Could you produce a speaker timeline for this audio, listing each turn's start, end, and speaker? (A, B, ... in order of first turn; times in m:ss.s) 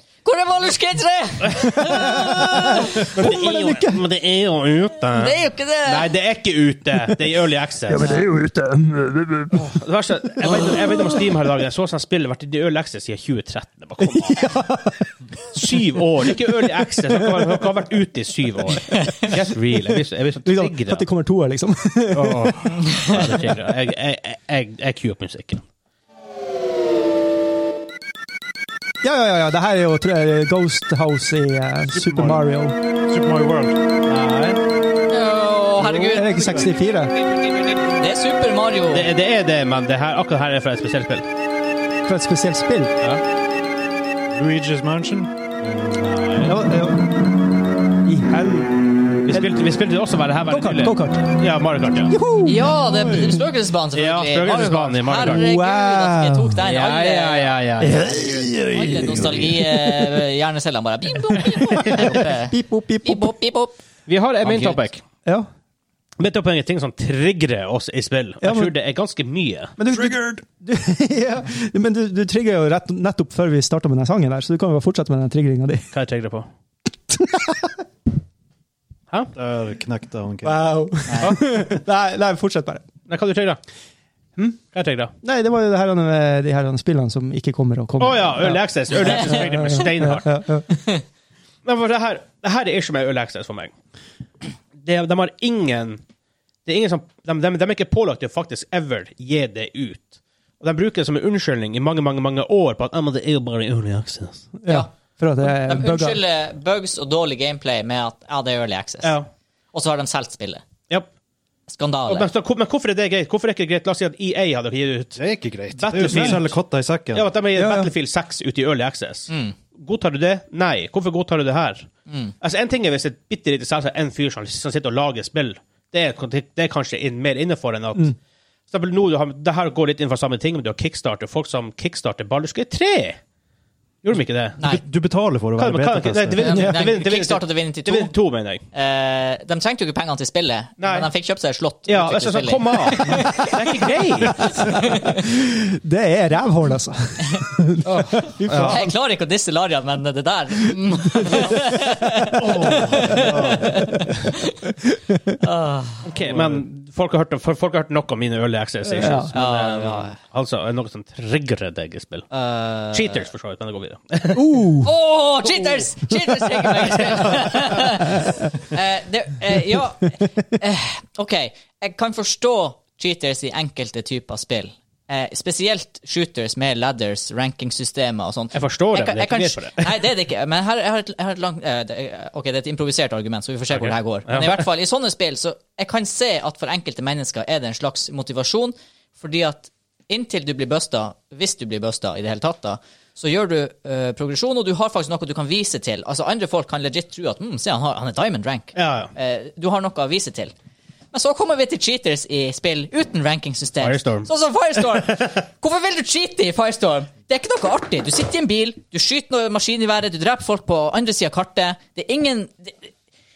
0:00.2-0:03.0 A
0:01.7-0:04.0 B
0:03.0-0:08.2 C
0:05.1-0:06.1 A
0:07.9-0:09.8 B
0:09.5-0:14.5 C
0:10.4-0:11.1 B
0:14.0-0:15.6 B
0:15.5-0:21.0 C
0:16.5-0:17.5 B
0:20.4-0:23.2 B
0:22.1-0:23.1 D
0:23.0-0:25.6 C
0:29.0-0:32.7 B
0:31.9-0:32.4 D
0:33.1-0:34.6 D
0:35.1-0:36.6 A
0:35.8-0:36.7 D
0:36.1-0:37.1 B
0:37.6-0:39.1 A
0:38.9-0:41.2 C
0:42.1-0:42.9 B
0:44.3-0:45.4 D
0:45.8-0:46.6 C
0:46.4-0:47.3 B
0:48.0-0:49.5 B
0:49.3-0:52.2 C
0:50.5-0:51.3 B
0:52.1-0:53.4 B
0:52.4-1:03.8 A
0:53.9-0:55.4 C
0:55.2-0:56.6 B
0:56.6-0:58.1 C
0:57.8-1:00.2 B
1:01.3-1:03.4 B
1:04.1-1:05.0 C
1:04.4-1:04.8 A
1:06.2-1:09.8 C
1:08.4-1:08.7 B
1:09.8-1:15.9 B
1:09.9-1:10.4 D
1:15.9-1:16.5 C
1:17.1-1:17.8 B
1:19.3-1:20.7 D
1:20.4-1:22.8 B
1:21.1-1:21.4 A
1:23.1-1:23.6 C
1:24.7-1:25.1 C
1:25.2-1:30.9 B
1:28.0-1:30.3 C
1:31.6-1:33.7 C
1:34.8-1:36.0 C
1:36.6-1:44.5 C
1:44.6-1:46.2 B
1:45.4-1:49.2 A
1:49.0-1:49.3 C
1:49.7-1:50.6 A
1:51.7-1:52.3 A
1:52.1-1:55.2 C
1:55.2-1:57.3 D
1:55.7-1:56.5 C
1:56.1-1:56.4 B
1:57.1-2:01.9 C
1:57.6-1:57.9 B
1:59.3-1:59.5 A
2:02.1-2:02.3 A
2:02.4-2:08.2 C
2:08.7-2:13.2 C
2:14.0-2:14.6 C
2:14.6-2:16.4 D
2:15.6-2:18.6 C
2:16.4-2:18.1 A
2:16.4-2:16.8 B
2:18.7-2:23.5 A
2:20.8-2:21.1 C
2:21.9-2:24.6 C
2:24.4-2:28.9 B
2:27.8-2:28.8 C
2:28.6-2:34.5 A
2:32.4-2:33.7 D
2:33.1-2:33.4 B
2:35.0-2:35.4 B
2:35.4-2:36.1 A
2:36.0-2:42.2 C
2:36.2-2:36.6 D
2:39.0-2:39.3 B
2:39.3-2:40.2 A
2:42.3-2:43.2 A
2:42.9-2:44.6 C
2:44.3-2:44.9 B
2:44.8-3:20.5 A
2:46.1-2:47.9 B
2:58.5-3:00.0 C
3:03.7-3:04.6 C
3:18.7-3:19.1 C
3:21.1-3:32.9 A
3:23.8-3:24.3 C
3:24.9-3:25.3 C